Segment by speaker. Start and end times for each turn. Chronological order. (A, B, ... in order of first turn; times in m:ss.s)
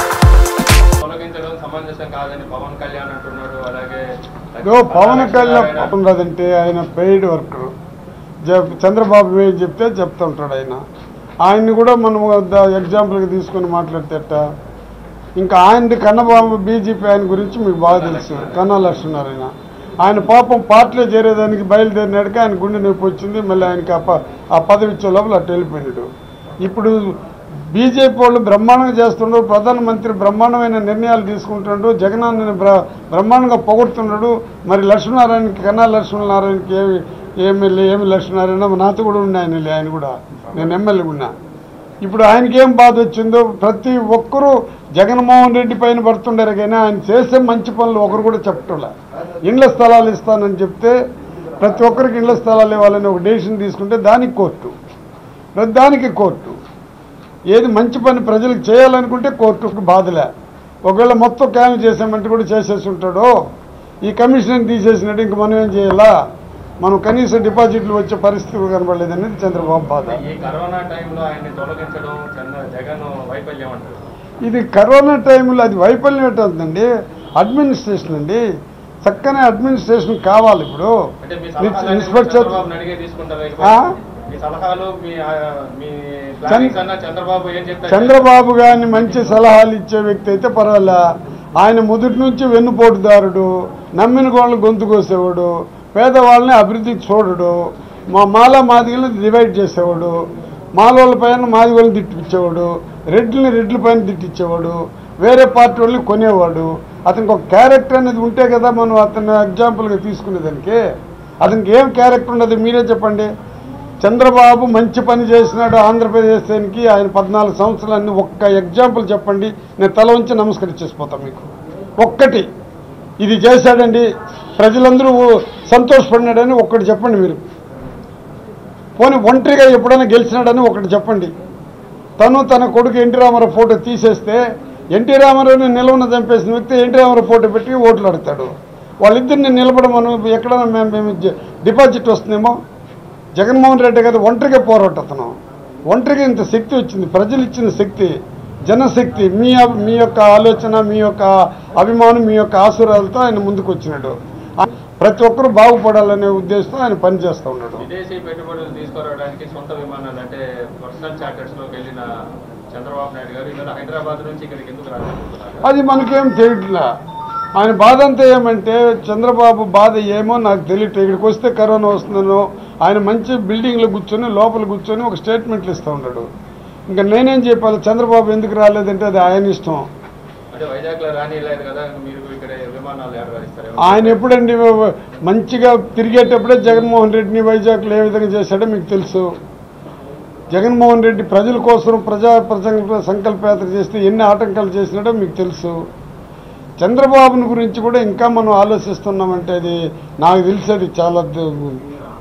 0:01.0-0:05.9 A
0:04.6-0:07.7 B
0:08.5-0:10.8 B
0:11.5-0:14.4 B
0:15.4-0:19.5 B
0:17.9-0:18.8 A
0:20.0-0:26.1 B
0:26.6-0:27.1 B
0:27.7-0:41.3 B
0:42.0-0:48.9 B
0:49.5-0:50.9 B
0:51.6-0:54.7 B
0:55.6-0:56.6 B
0:57.5-1:00.3 B
1:00.9-1:03.3 B
1:04.1-1:06.1 B
1:06.8-1:10.2 B
1:09.7-1:14.0 A
1:14.4-1:16.9 B
1:17.4-1:18.4 B
1:19.0-1:20.9 B
1:21.2-1:28.3 A
1:21.6-1:22.6 B
1:23.6-1:23.9 B
1:26.5-1:26.8 B
1:27.9-1:31.0 B
1:31.6-1:37.6 B
1:38.1-1:40.1 B
1:40.8-1:50.8 B
1:51.4-1:53.3 B
1:54.0-2:01.5 B
2:02.0-2:02.4 B
2:03.2-2:07.4 B
2:09.0-2:11.3 B
2:12.2-2:14.4 B
2:15.0-2:18.5 B
2:19.0-2:22.6 B
2:23.4-2:25.3 B
2:25.9-2:28.1 B
2:28.7-2:37.8 B
2:37.8-2:42.1 A
2:42.7-2:45.8 A
2:45.6-2:46.9 B
2:47.6-2:56.3 B
2:56.9-2:59.8 B
3:00.5-3:04.2 A
3:03.8-3:09.2 B
3:10.5-3:15.8 B
3:16.8-3:21.8 B